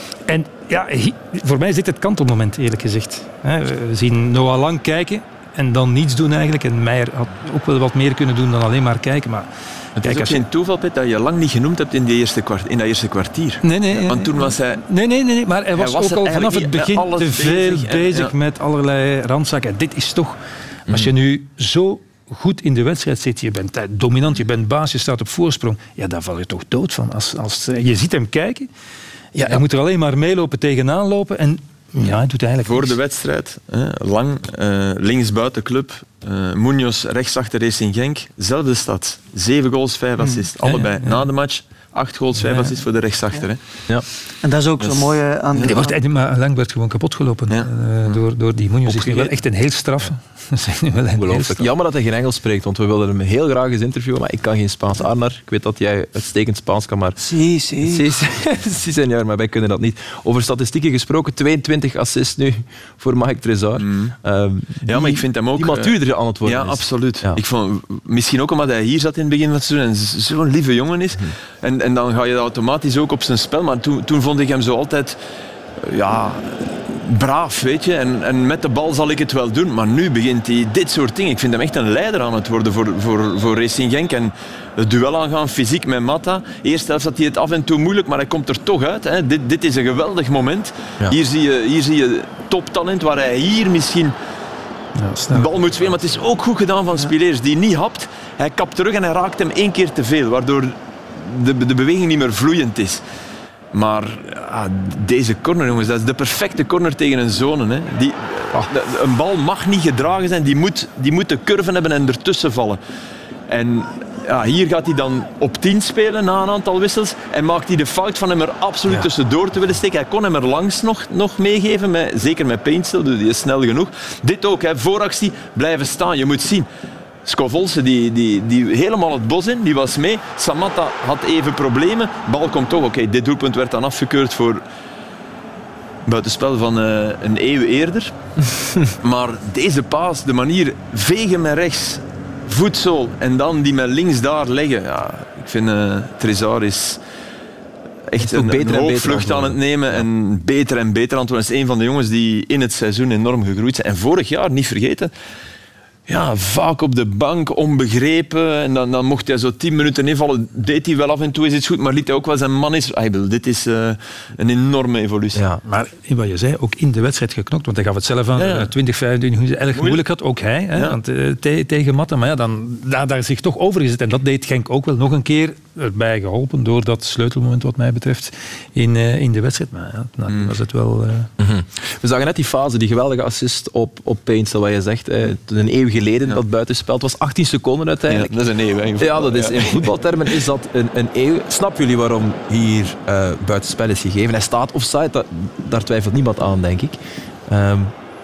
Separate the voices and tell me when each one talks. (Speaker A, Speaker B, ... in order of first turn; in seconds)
Speaker A: 0.3-9.5, 10.0-10.4, 13.6-28.7, 29.4-33.0, 40.7-41.2, 42.4-42.7, 45.7-51.7, 95.0-95.5, 165.7-181.3
Speaker B: 10.0-14.8, 15.8-18.3, 32.6-43.6, 44.8-45.7, 47.5-48.2, 48.9-49.3, 63.8-64.2, 64.8-75.2, 75.8-94.2, 95.3-103.0, 103.7-112.8, 113.5-126.7, 127.2-134.6, 136.1-138.2, 139.0-147.0, 148.1-155.1, 156.1-165.4, 168.4-168.7, 169.7-170.0, 180.3-180.5, 188.1-189.9
Speaker C: 44.4-46.0, 57.2-58.1
Speaker D: 51.2-57.2, 57.8-67.4, 148.2-150.1, 165.3-165.6, 181.4-188.3, 189.0-197.9